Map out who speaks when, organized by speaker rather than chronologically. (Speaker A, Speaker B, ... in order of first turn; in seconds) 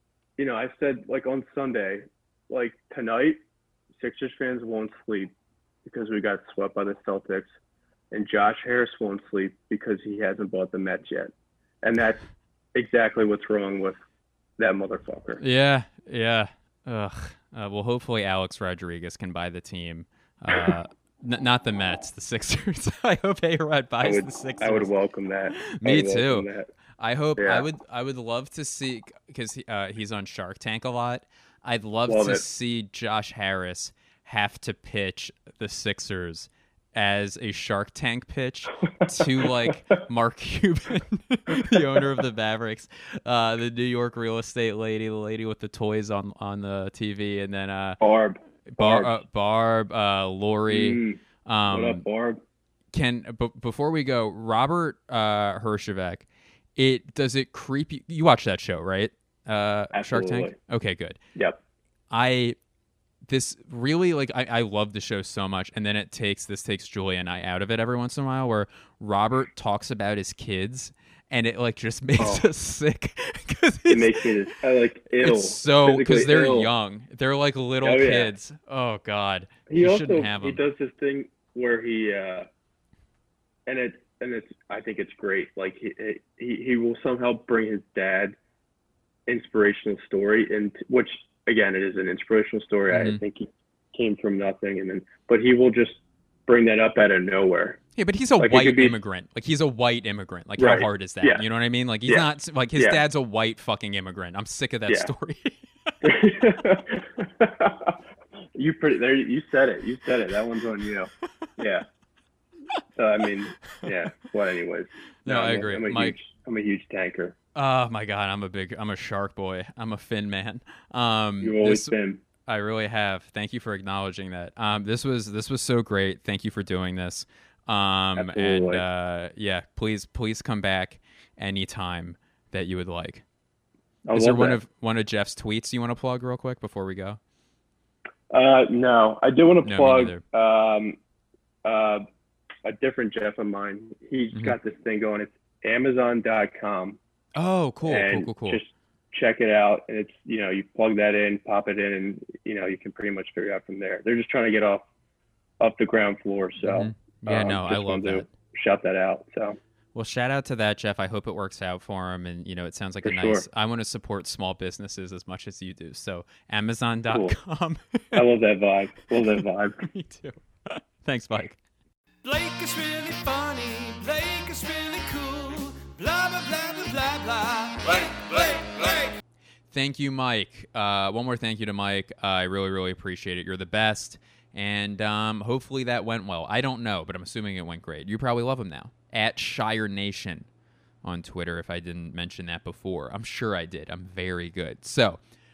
Speaker A: 0.4-3.4, 4.0-5.3, 5.8-7.5, 8.1-12.2, 12.7-14.0, 14.6-15.4, 24.0-26.7, 27.4-27.6, 32.1-32.4, 39.2-39.9, 41.7-42.0, 48.0-49.2, 50.7-52.4, 59.9-60.5, 72.2-72.5, 73.9-76.7, 77.8-78.3, 79.7-82.5, 83.7-88.3, 89.3-97.8, 98.4-99.0, 100.6-101.4, 102.1-103.0, 106.0-108.0, 108.5-111.8, 112.9-117.4, 121.4-122.2, 128.2-128.8, 134.1-134.6, 138.3-141.0, 141.6-142.0, 142.6-147.0, 147.8-154.8, 155.6-159.6, 163.0-163.4, 167.1-167.3, 168.1-169.9
Speaker B: 15.4-24.9, 25.5-26.5, 27.0-48.0, 48.7-52.0, 52.9-61.2, 62.1-62.5, 63.2-74.3, 75.2-80.6, 92.9-93.2, 98.0-105.6, 115.2-116.2, 117.5-121.9, 122.5-133.2, 134.1-137.2, 139.6-140.2, 147.3-148.6, 156.6-158.3, 159.9-168.2, 169.8-171.6, 179.7-190.5, 191.0-195.2
Speaker C: 172.2-179.2